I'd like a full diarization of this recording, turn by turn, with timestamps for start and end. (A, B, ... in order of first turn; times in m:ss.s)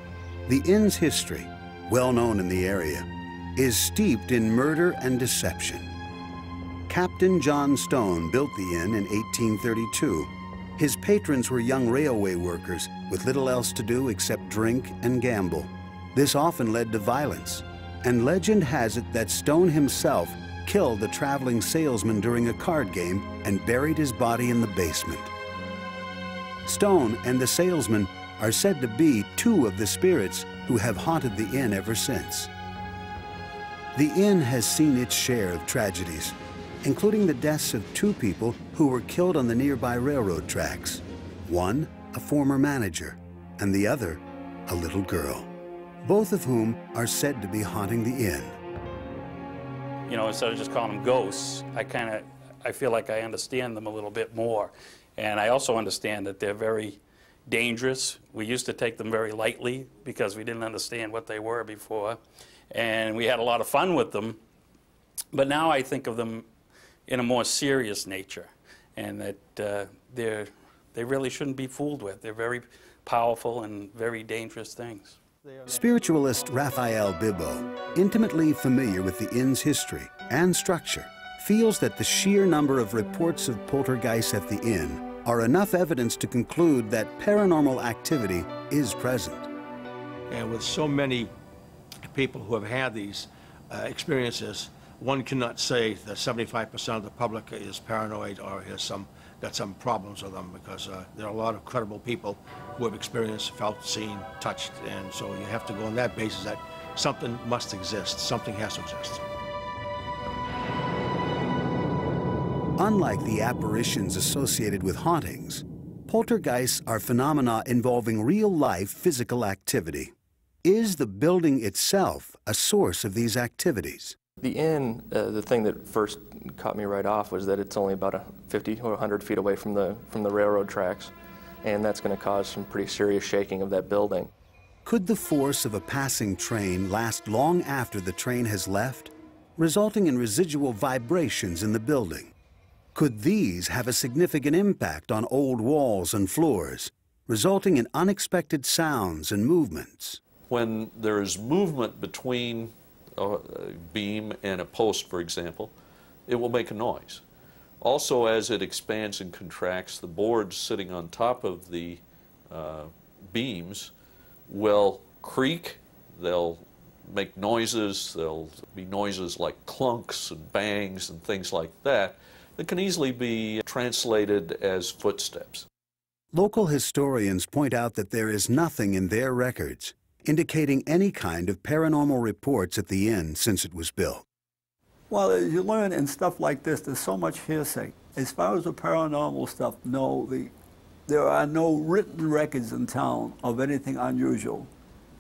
0:00.5-0:05.9 A
0:06.9-0:25.3 A
0:26.6-0:32.5 A
0:33.9-0:45.5 A
0:46.0-0:48.6 A
0:50.1-1:02.2 B
1:02.7-1:04.4 B
1:05.3-1:06.4 B
1:07.1-1:15.2 B
1:15.7-1:29.5 A
1:30.3-1:31.3 C
1:32.0-1:49.2 C
1:52.8-2:00.1 A
2:00.6-2:04.2 A
2:04.4-2:11.1 D
2:11.6-2:14.3 D
2:14.8-2:22.3 A
2:22.9-2:30.2 A
2:30.5-2:35.7 E
2:36.3-2:37.2 E
2:37.8-2:43.9 E
2:44.5-2:55.6 E
2:56.3-3:04.2 A
3:05.1-3:10.5 F
3:11.1-3:14.7 F